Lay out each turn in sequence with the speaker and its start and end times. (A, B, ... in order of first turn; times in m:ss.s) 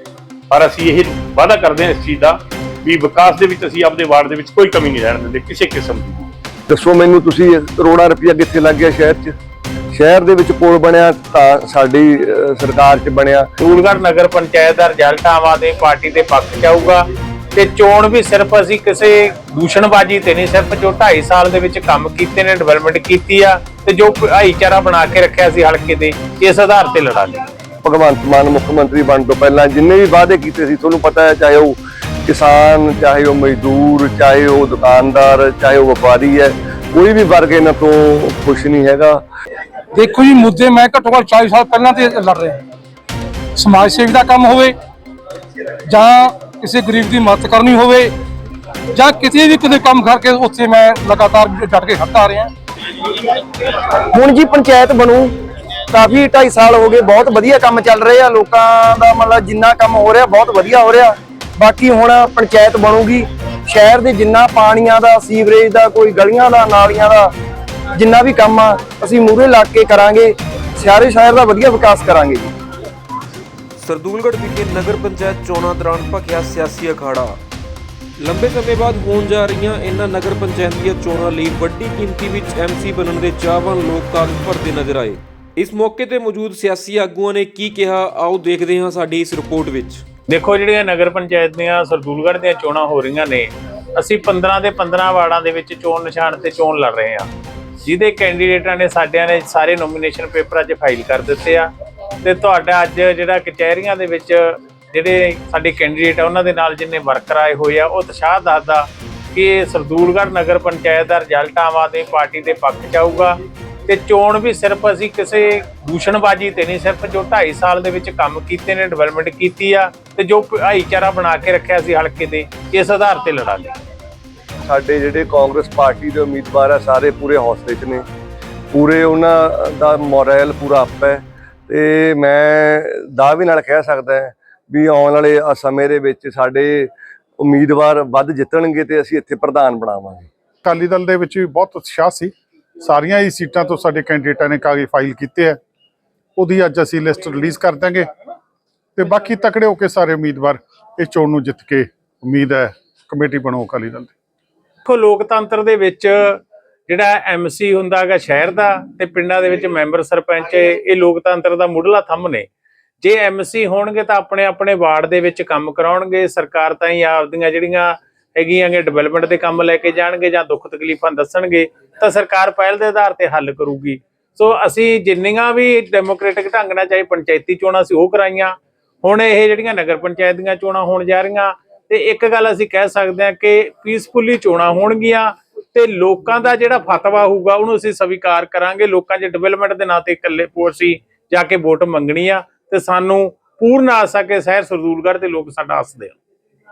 0:00.5-0:06.3 A
0:06.7-0:09.4 B
0:09.9-0:13.5 B
0:13.6-0:17.0 C
0:17.6-0:27.4 C
0:27.8-0:39.2 B
0:39.9-0:42.6 D
0:43.6-0:44.8 D
0:45.9-0:48.1 D
0:48.9-0:52.5 D
0:54.0-0:55.3 E
0:55.9-1:07.3 E
1:07.9-1:12.5 E
1:13.8-1:17.4 F
1:18.2-1:30.0 F
1:30.3-1:37.3 C
1:37.8-1:41.7 C
1:42.2-2:03.7 C
2:04.6-2:08.0 B
2:08.7-2:20.3 B
2:20.6-2:25.6 G
2:26.4-2:28.1 G
2:29.0-2:34.1 G
2:34.9-2:42.5 C
2:43.0-3:16.2 C